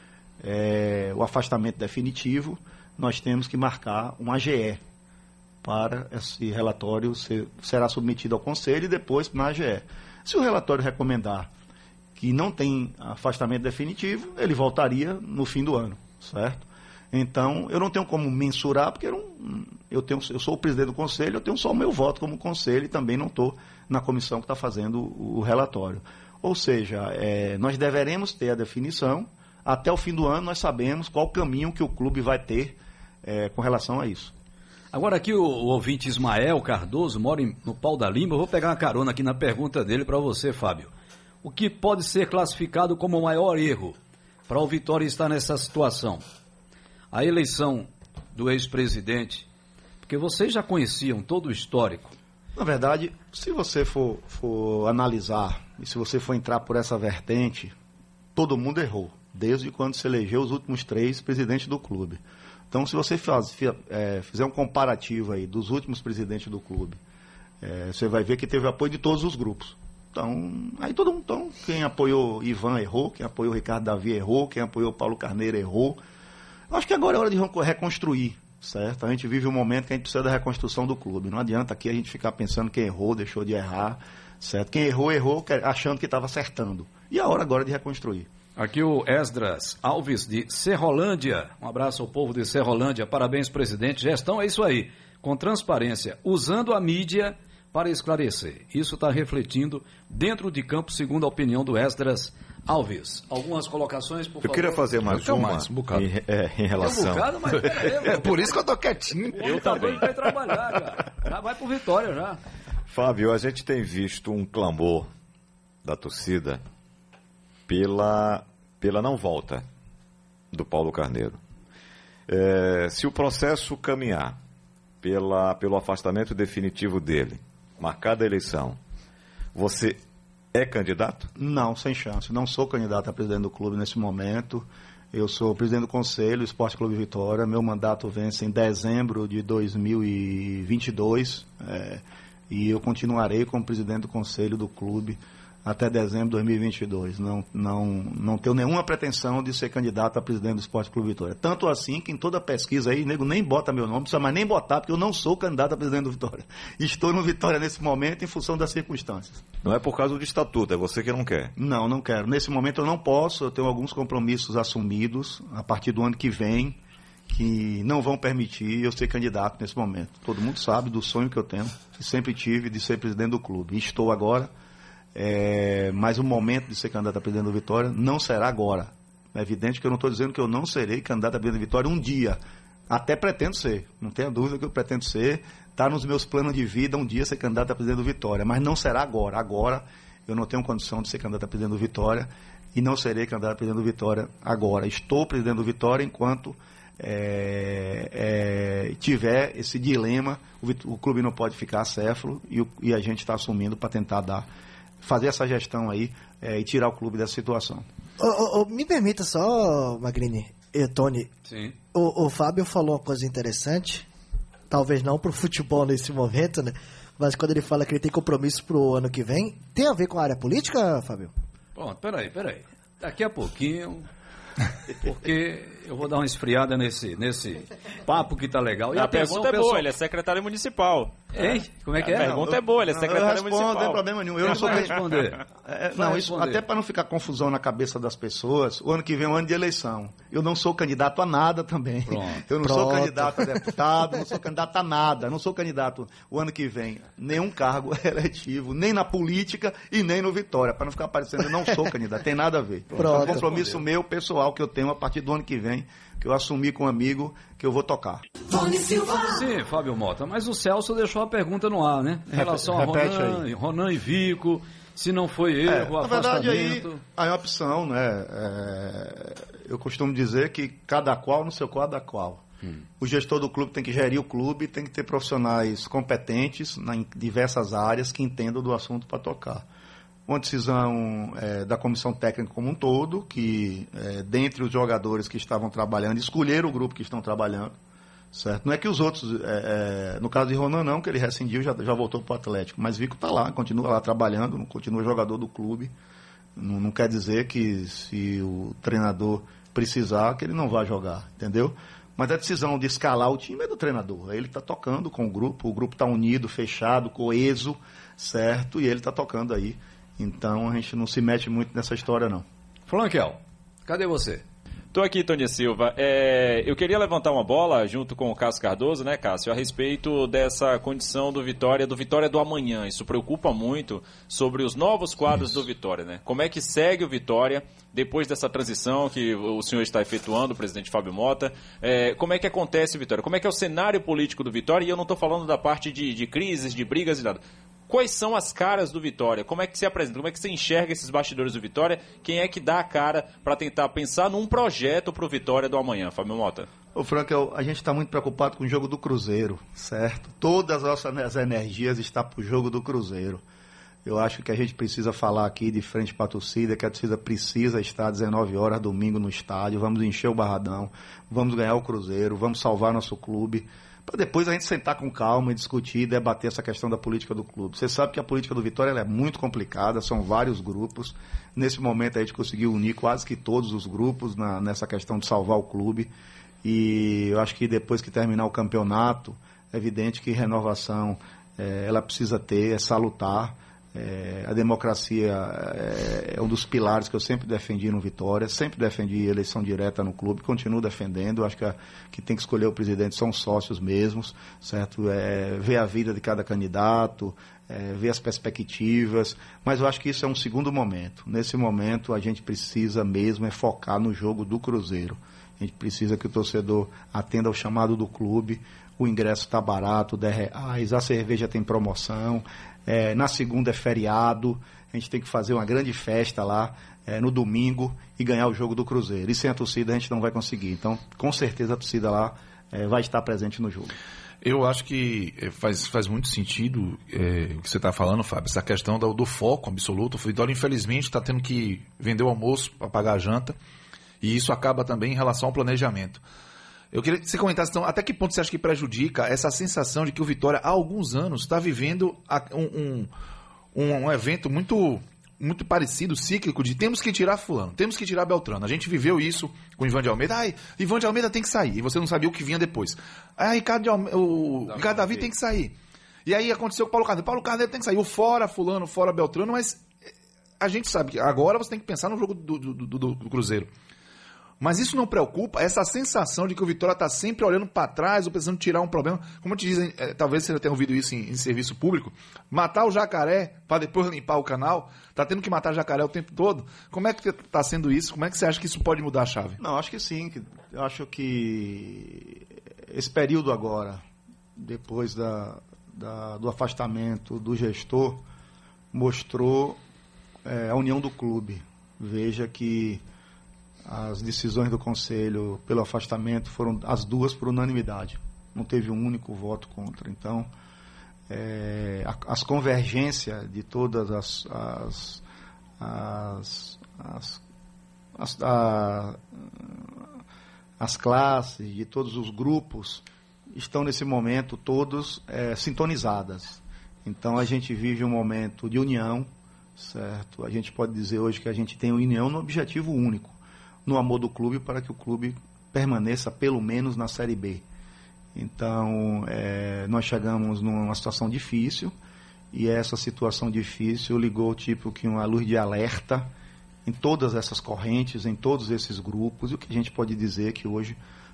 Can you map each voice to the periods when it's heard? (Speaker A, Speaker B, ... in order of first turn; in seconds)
Speaker A: 0.4-4.8, 5.6-11.5, 12.2-34.3, 52.6-57.8, 58.4-62.2, 62.7-67.0, 67.6-76.0, 76.7-88.3, 131.4-159.4, 161.6-174.5, 175.1-204.5, 205.0-207.9, 232.1-258.2, 265.6-272.4, 273.0-279.6, 280.3-287.7, 288.3-295.9, 296.6-312.5, 346.9-353.4, 354.1-376.1, 376.6-424.0, 479.6-484.0, 484.6-488.2, 488.9-489.8, 490.4-493.0, 493.9-500.5, 501.3-505.2, 505.8-507.4, 508.1-510.1, 510.8-527.6, 528.4-531.9, 532.5-536.3, 536.9-541.0
Speaker B: 34.9-40.9, 41.4-44.0, 44.5-46.2, 47.1-49.5, 50.0-52.1, 88.6-104.8, 106.8-108.6, 109.3-112.4, 211.5-211.8, 221.8-224.1, 224.9-229.9, 231.3-232.4, 234.4-235.4, 236.0-236.6, 242.1-242.4, 258.7-267.0, 312.9-314.4
Speaker C: 104.4-107.3, 112.9-115.1, 115.8-116.6, 117.7-119.7, 120.5-121.4, 122.3-124.4, 125.0-128.8, 129.5-130.0, 130.5-131.3, 159.6-161.5
Speaker D: 105.0-106.1, 108.0-110.1, 424.4-433.6, 434.2-436.2, 436.9-443.1, 443.7-459.9, 460.6-463.7, 464.6-479.6
Speaker E: 109.4-110.0, 228.9-234.0, 314.9-346.7
Speaker F: 208.2-211.3, 211.9-214.1, 214.7-221.3, 242.6-243.6, 253.0-253.4, 258.6-259.1, 262.9-263.3